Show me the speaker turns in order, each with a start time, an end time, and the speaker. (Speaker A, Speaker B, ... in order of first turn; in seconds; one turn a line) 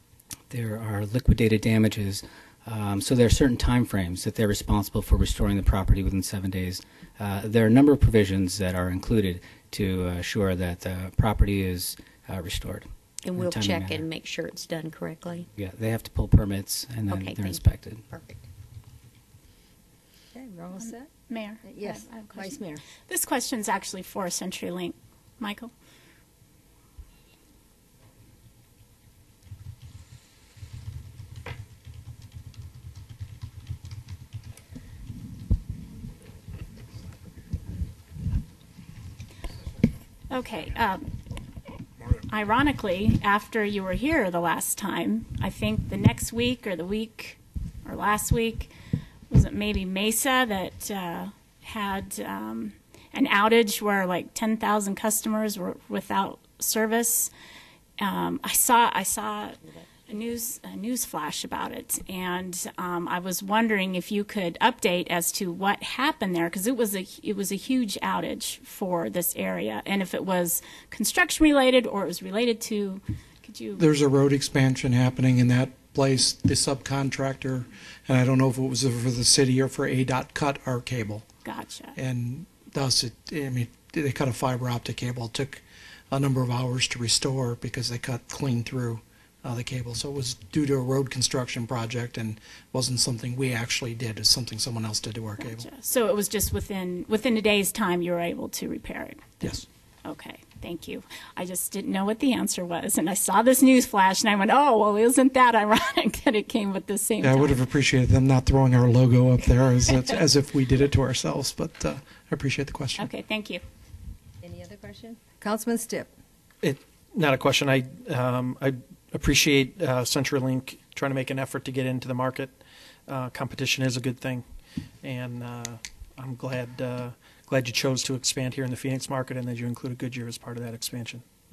Speaker A: 0.5-14.0
Speaker B: 13.2-15.5
Speaker A: 15.6-18.0
Speaker B: 17.1-18.4
Speaker C: 20.3-21.1
Speaker D: 20.8-25.7
Speaker C: 21.6-22.8
Speaker D: 40.3-41.1
Speaker D: 42.3-48.7
Speaker D: 49.3-57.3
Speaker D: 58.0-73.8
Speaker E: 73.8-81.4
Speaker D: 81.4-82.0
Speaker E: 82.0-95.7
Speaker D: 95.4-99.3
Speaker E: 99.4-99.7
Speaker D: 100.0-107.6
Speaker E: 107.2-113.1
Speaker D: 113.0-113.6
Speaker C: 114.4-116.1
Speaker F: 116.6-122.5
Speaker F: 123.1-124.4
Speaker F: 125.0-131.2